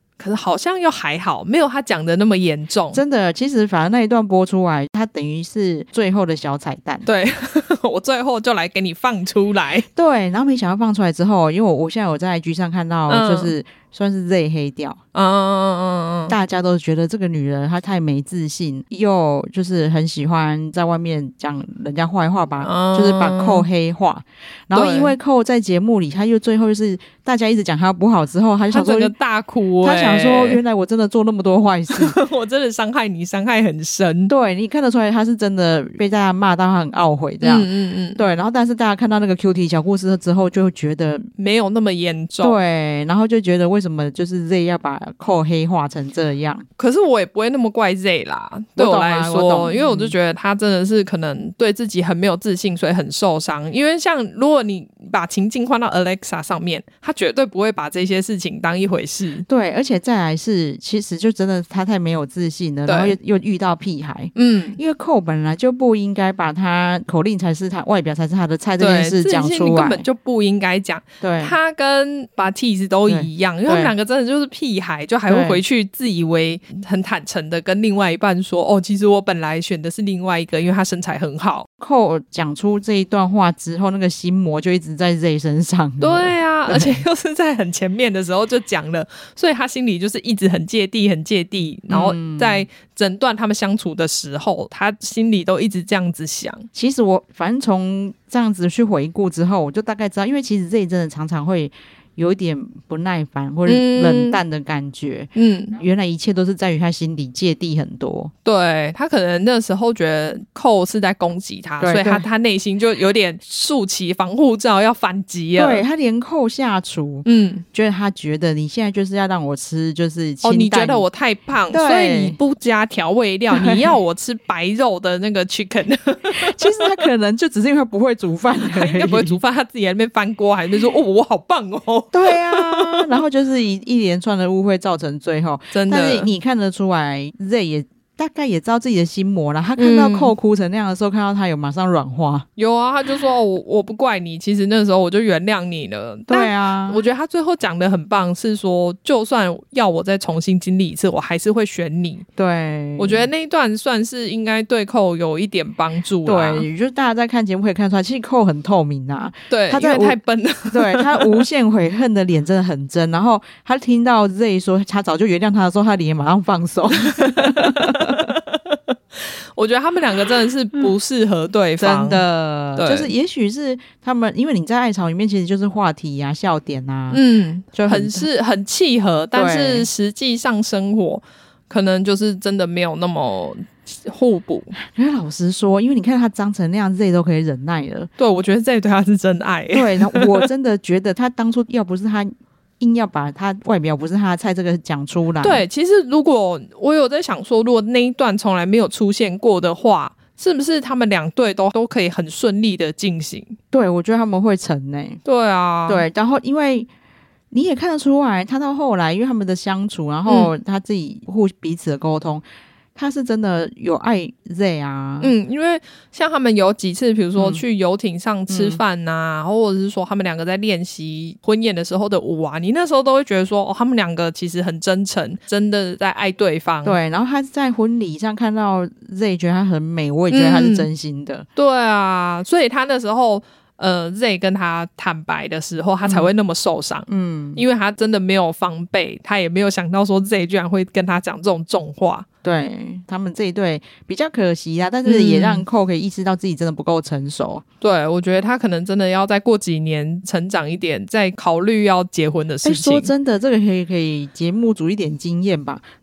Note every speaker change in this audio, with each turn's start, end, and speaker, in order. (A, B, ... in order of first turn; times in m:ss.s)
0:00.2-0:03.0 A
0:02.9-0:07.0 B
0:07.0-0:09.8 A
0:09.9-0:15.0 B
0:13.1-0:13.5 A
0:15.1-0:16.3 A
0:16.3-0:29.1 B
0:22.6-0:23.7 A
0:24.7-0:25.1 A
0:28.7-0:30.6 A
0:29.8-0:32.2 B
0:31.9-0:34.3 A
0:34.3-0:41.3 B
0:37.4-0:38.2 A
0:41.4-0:42.6 A
0:42.4-0:46.6 B
0:46.8-0:59.4 A
0:48.8-0:50.1 B
0:59.5-1:10.0 B
1:02.8-1:03.1 A
1:04.3-1:04.8 A
1:08.8-1:21.7 A
1:11.2-1:11.6 B
1:13.1-1:13.9 B
1:15.3-1:15.6 B
1:21.8-1:27.0 B
1:26.0-1:36.7 A
1:31.9-1:32.6 B
1:36.7-1:48.3 B
1:43.6-1:44.4 A
1:45.3-1:45.8 A
1:48.4-1:55.8 A
1:51.8-1:52.2 B
1:55.6-2:01.0 B
1:57.2-1:57.6 A
2:00.4-2:07.0 A
2:01.7-2:02.4 B
2:03.5-2:03.9 B
2:06.4-2:09.4 B
2:08.7-2:13.1 A
2:12.1-2:22.4 B
2:15.7-2:16.3 A
2:19.8-2:20.3 A
2:22.6-2:32.2 A
2:26.3-2:27.0 B
2:32.4-2:33.3 B
2:33.0-2:36.6 A
2:36.2-2:40.2 B
2:39.5-2:41.4 A
2:40.7-2:48.3 B
2:47.0-2:52.2 A
2:51.8-2:57.2 B
2:52.8-2:53.1 A
2:57.1-3:04.7 A
2:57.7-2:58.3 B
2:59.3-2:59.9 B
3:04.8-3:08.1 B
3:08.2-3:10.4 A
3:09.7-3:15.6 B
3:15.4-3:23.6 A
3:23.7-3:25.2 B
3:25.2-3:26.0 A
3:25.9-3:26.9 B
3:27.5-3:32.4 B
3:30.3-3:30.5 A
3:33.0-3:35.3 B
3:35.2-3:47.0 A
3:37.4-3:37.6 B
3:38.5-3:38.8 B
3:46.8-3:51.4 B
3:50.3-3:50.9 A
3:51.6-4:02.2 A
3:57.1-3:57.6 B
4:02.4-4:07.6 B
4:05.0-4:05.6 A
4:07.8-4:13.1 A
4:12.6-4:15.8 B